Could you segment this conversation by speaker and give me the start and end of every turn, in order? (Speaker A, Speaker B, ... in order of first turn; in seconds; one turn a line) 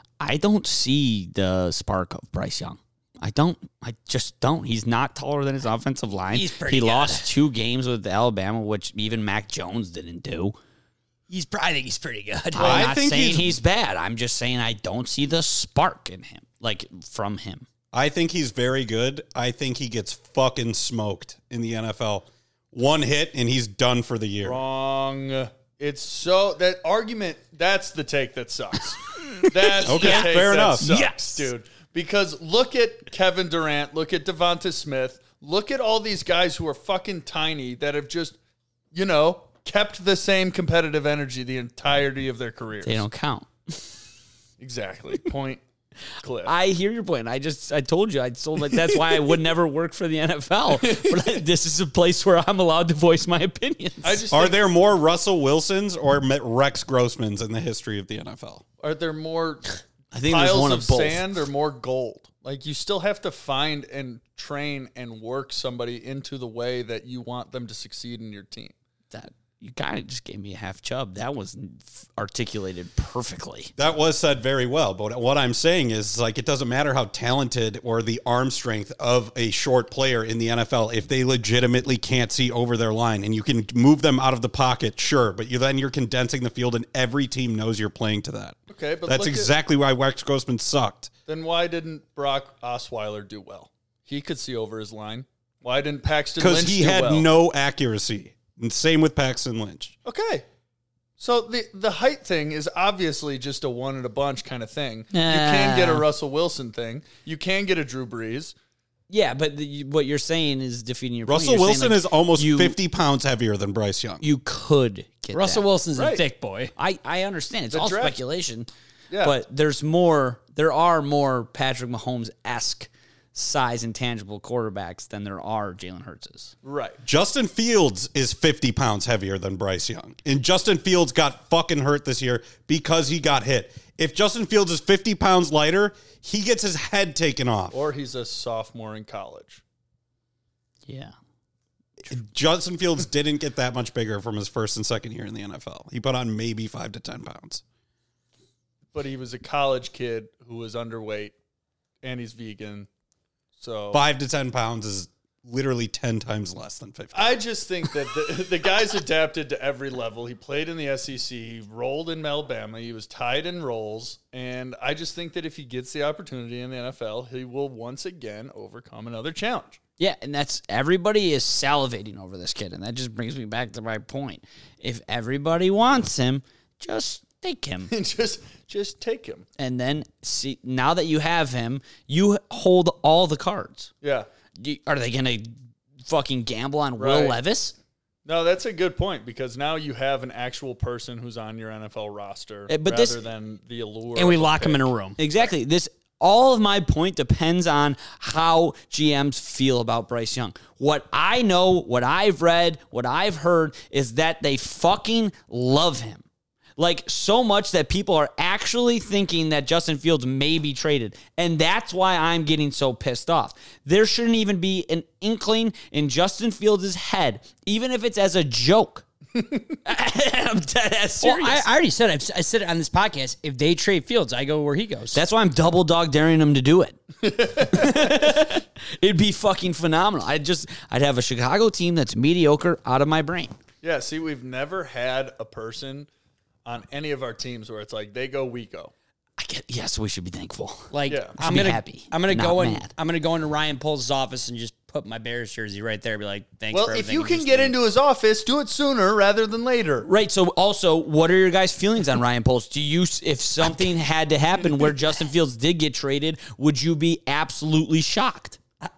Speaker A: 0.2-10.6
Speaker B: 6.3-7.3
Speaker B: 11.3-12.9
Speaker A: 12.5-17.7
Speaker C: 12.6-13.6
Speaker C: 17.9-24.6
Speaker D: 24.4-38.4
Speaker C: 29.9-30.9
Speaker A: 29.9-30.3
Speaker B: 30.9-31.4
Speaker D: 38.9-43.1
Speaker A: 42.9-43.8
Speaker D: 44.6-45.6
Speaker D: 46.2-46.5
Speaker A: 46.5-54.2
Speaker D: 50.8-51.4
Speaker D: 54.0-54.6
Speaker C: 54.3-58.6
Speaker D: 58.8-68.7
Speaker A: 60.1-61.3
Speaker A: 69.1-73.7
Speaker C: 73.8-91.1
Speaker D: 88.7-89.5
Speaker D: 91.3-97.3
Speaker C: 96.4-100.0
Speaker D: 100.0-100.5
Speaker D: 101.2-108.5
Speaker A: 105.1-106.0
Speaker A: 109.1-112.8
Speaker C: 111.3-114.2
Speaker A: 114.2-115.7
Speaker B: 115.3-116.7
Speaker D: 116.0-116.2
Speaker A: 116.8-118.7
Speaker D: 117.7-118.2
Speaker D: 119.1-119.3
Speaker A: 119.2-126.5
Speaker D: 126.6-127.0
Speaker C: 127.0-137.8
Speaker D: 137.7-139.6
Speaker A: 140.9-141.1
Speaker C: 142.1-147.6
Speaker D: 148.9-151.3
Speaker D: 152.0-152.9
Speaker D: 153.6-154.0
Speaker C: 153.9-157.3
Speaker D: 157.1-169.8
Speaker A: 170.0-177.9
Speaker D: 177.9-179.4
Speaker A: 179.6-183.9
Speaker D: 184.0-184.3
Speaker A: 184.6-185.6
Speaker A: 186.1-187.8
Speaker D: 187.0-187.4
Speaker D: 188.3-195.5
Speaker A: 192.7-193.2
Speaker B: 194.2-195.2
Speaker A: 195.2-206.2
Speaker A: 206.8-219.1
Speaker A: 219.8-221.7
Speaker B: 221.2-225.2
Speaker A: 225.1-227.0
Speaker D: 227.2-228.3
Speaker A: 227.6-233.6
Speaker D: 233.8-236.1
Speaker D: 236.7-238.9
Speaker A: 239.4-242.9
Speaker B: 240.9-247.8
Speaker D: 241.1-241.4
Speaker D: 246.7-250.1
Speaker A: 250.1-258.6